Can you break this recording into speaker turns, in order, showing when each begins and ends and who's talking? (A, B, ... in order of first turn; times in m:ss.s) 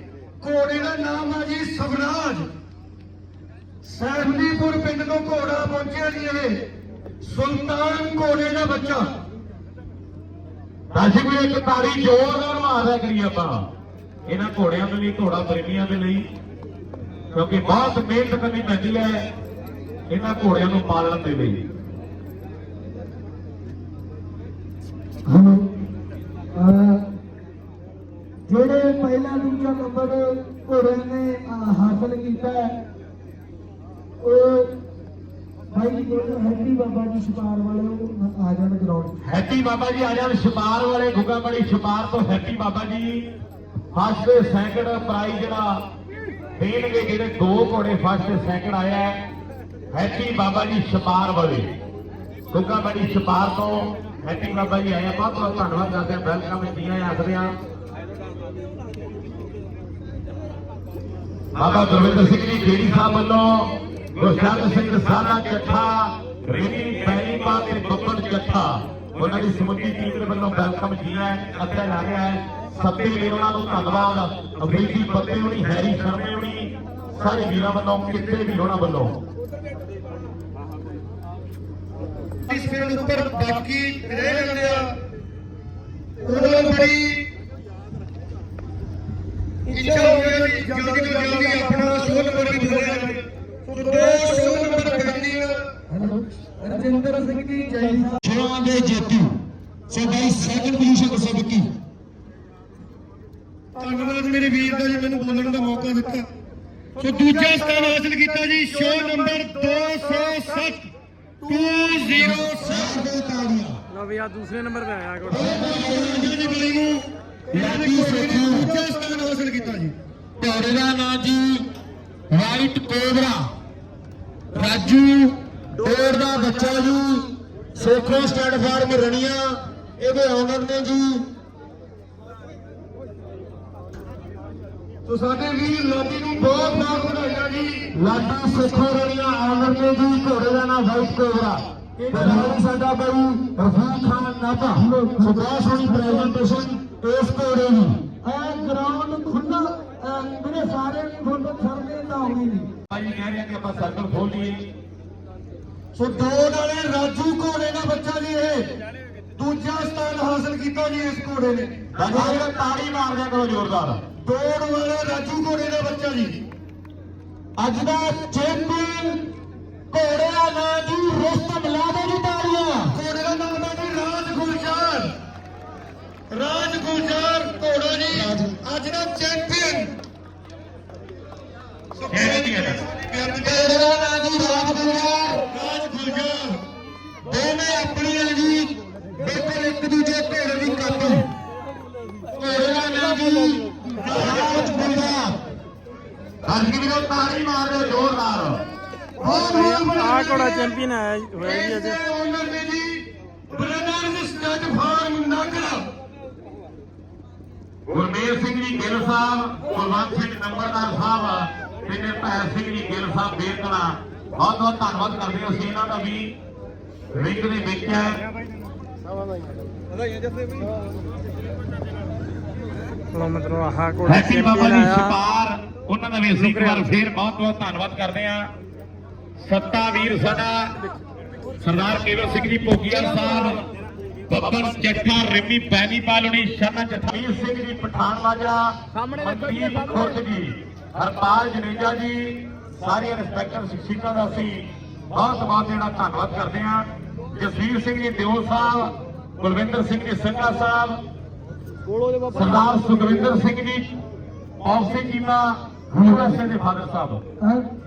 0:00.4-0:02.5 A
0:03.8-0:06.6 A
0:07.2-0:09.1 A
0:10.9-0:13.7 B
0:14.3-0:16.3 B
0:17.3-0:19.3 B
0:20.1-0:21.6 B
0:25.3-0:25.7 C
0:26.6-0:27.1 C
0:28.5-0:32.8 C
0:34.2-0:34.7 C
0:35.7-0:39.2 C
0:39.2-0:43.3 B
0:43.9-0:45.8 B
0:46.6-0:49.3 B
0:49.9-0:51.7 B
0:52.5-0:57.6 B
1:01.6-1:19.2 B
1:22.5-1:25.0 A
1:26.2-1:27.2 A
1:29.7-1:35.7 A
1:29.9-1:32.8 C
1:35.9-1:38.2 C
1:38.2-1:41.7 D
1:43.8-1:46.3 A
1:47.0-1:50.9 A
1:51.4-1:53.0 A
1:52.6-1:53.8 D
1:53.9-1:55.7 E
1:55.3-2:00.0 A
1:55.3-1:56.4 D
1:57.5-1:58.7 D
2:00.4-2:01.7 D
2:02.3-2:03.5 D
2:04.5-2:11.2 D
2:15.1-2:17.9 A
2:17.9-2:28.0 D
2:22.0-2:22.4 A
2:22.1-2:22.6 C
2:24.8-2:26.4 C
2:28.2-2:32.7 C
2:32.9-2:34.7 B
2:35.9-2:38.7 A
2:39.4-2:42.5 A
2:41.9-2:44.0 B
2:44.2-2:46.4 A
2:47.6-2:49.2 D
2:49.9-2:53.0 D
2:52.9-2:55.1 A
2:56.3-2:59.9 A
2:58.1-2:58.5 D
3:02.0-3:03.6 A
3:02.1-3:02.9 B
3:03.3-3:05.4 D
3:05.4-3:06.6 A
3:07.3-3:11.3 D
3:12.4-3:15.4 D
3:14.0-3:14.8 A
3:16.4-3:18.6 B
3:19.2-3:20.7 A
3:19.2-3:22.0 E
3:21.4-3:25.9 A
3:27.9-3:36.4 B
3:37.1-3:38.2 B
3:43.1-3:45.2 E
3:44.1-3:48.5 B
3:46.4-3:46.9 E
3:49.4-3:50.8 B
3:51.6-3:53.6 B
3:54.3-4:11.0 B
4:12.3-4:14.0 B
4:14.6-4:17.2 B
4:17.4-4:17.6 C